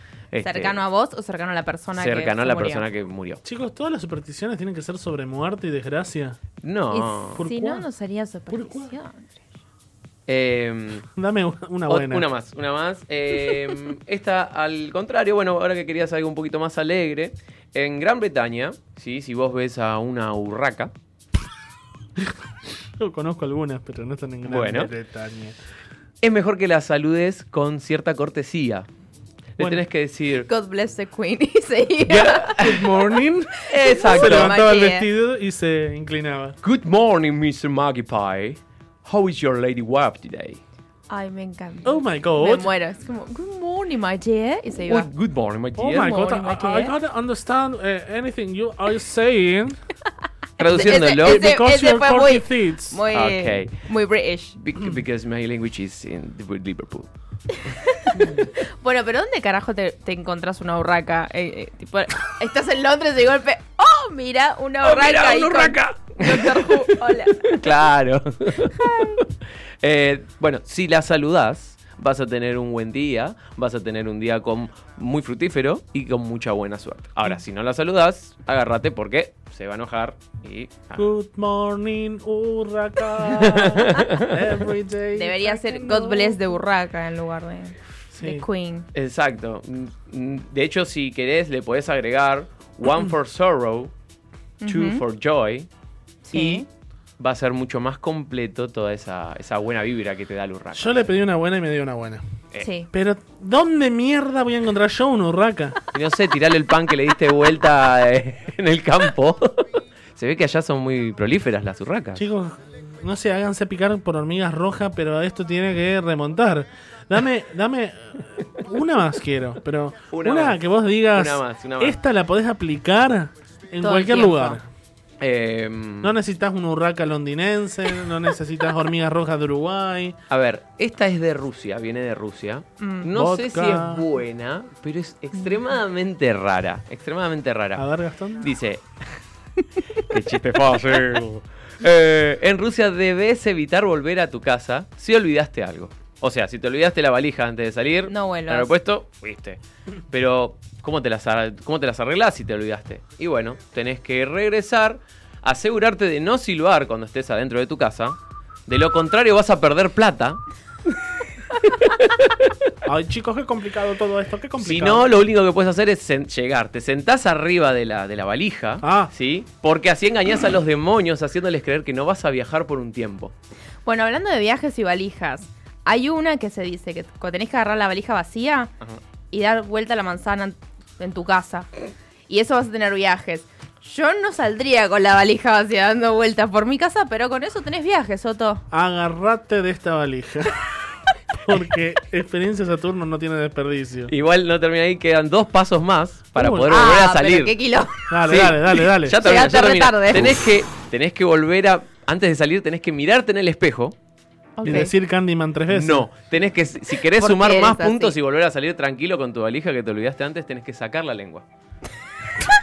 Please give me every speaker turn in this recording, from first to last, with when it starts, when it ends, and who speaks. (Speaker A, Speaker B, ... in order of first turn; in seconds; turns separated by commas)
Speaker A: 0.3-0.8, Speaker B: 0.4-2.8, Speaker A: 1.9-3.4, Speaker C: 3.4-6.4, Speaker A: 6.6-7.4, Speaker B: 6.9-9.3, Speaker C: 7.4-7.8, Speaker C: 8.5-8.9, Speaker A: 10.3-11.1, Speaker C: 11.1-12.3, Speaker A: 11.9-20.9, Speaker C: 23.0-25.6, Speaker A: 24.4-24.9, Speaker A: 26.2-28.9, Speaker A: 29.6-30.5, Speaker B: 30.5-32.5, Speaker A: 32.1-32.9, Speaker C: 32.6-36.6, Speaker A: 33.7-34.6, Speaker B: 33.9-35.1, Speaker A: 36.6-40.6, Speaker B: 41.1-45.1, Speaker C: 41.8-42.7, Speaker A: 44.9-46.2, Speaker C: 45.8-49.8, Speaker B: 45.9-47.0, Speaker A: 50.6-51.5, Speaker B: 50.7-54.5, Speaker C: 51.2-53.0, Speaker A: 53.1-53.9, Speaker A: 54.5-57.1, Speaker B: 57.7-58.1, Speaker C: 58.2-58.4, Speaker B: 58.8-67.6, Speaker A: 64.8-66.8, Speaker A: 67.5-69.2, Speaker A: 69.8-81.1, Speaker C: 81.0-86.2, Speaker A: 83.3-84.2, Speaker B: 85.2-88.9, Speaker C: 88.1-88.5, Speaker A: 88.9-93.9, Speaker B: 94.6-95.0, Speaker A: 94.7-95.7, Speaker B: 96.3-96.7, Speaker A: 96.3-96.7, Speaker A: 97.2-101.0, Speaker C: 100.7-102.2, Speaker B: 102.6-102.9, Speaker C: 102.9-105.8, Speaker A: 105.9-109.7, Speaker A: 110.2-112.2, Speaker C: 112.2-124.6, Speaker A: 120.1-122.0, Speaker B: 123.8-124.6, Speaker A: 125.2-126.1, Speaker C: 126.0-130.2, Speaker A: 130.3-137.8, Speaker B: 132.8-133.1, Speaker C: 133.2-134.1, Speaker C: 137.8-138.5, Speaker A: 138.4-138.8, Speaker A: 140.1-160.4, Speaker B: 148.1-148.7, Speaker A: 161.8-162.5, Speaker C: 162.9-165.1, Speaker A: 164.6-173.3, Speaker C: 168.8-169.1, Speaker B: 173.9-178.7, Speaker B: 179.3-181.7, Speaker B: 182.3-188.6, Speaker C: 188.7-190.6, Speaker C: 191.4-194.1, Speaker A: 194.1-197.6, Speaker C: 196.3-197.0, Speaker B: 196.7-198.1, Speaker C: 198.1-199.2, Speaker A: 198.3-203.9, Speaker B: 199.2-200.3, Speaker B: 204.6-204.9, Speaker C: 204.6-206.1, Speaker A: 205.7-211.4, Speaker B: 207.2-208.2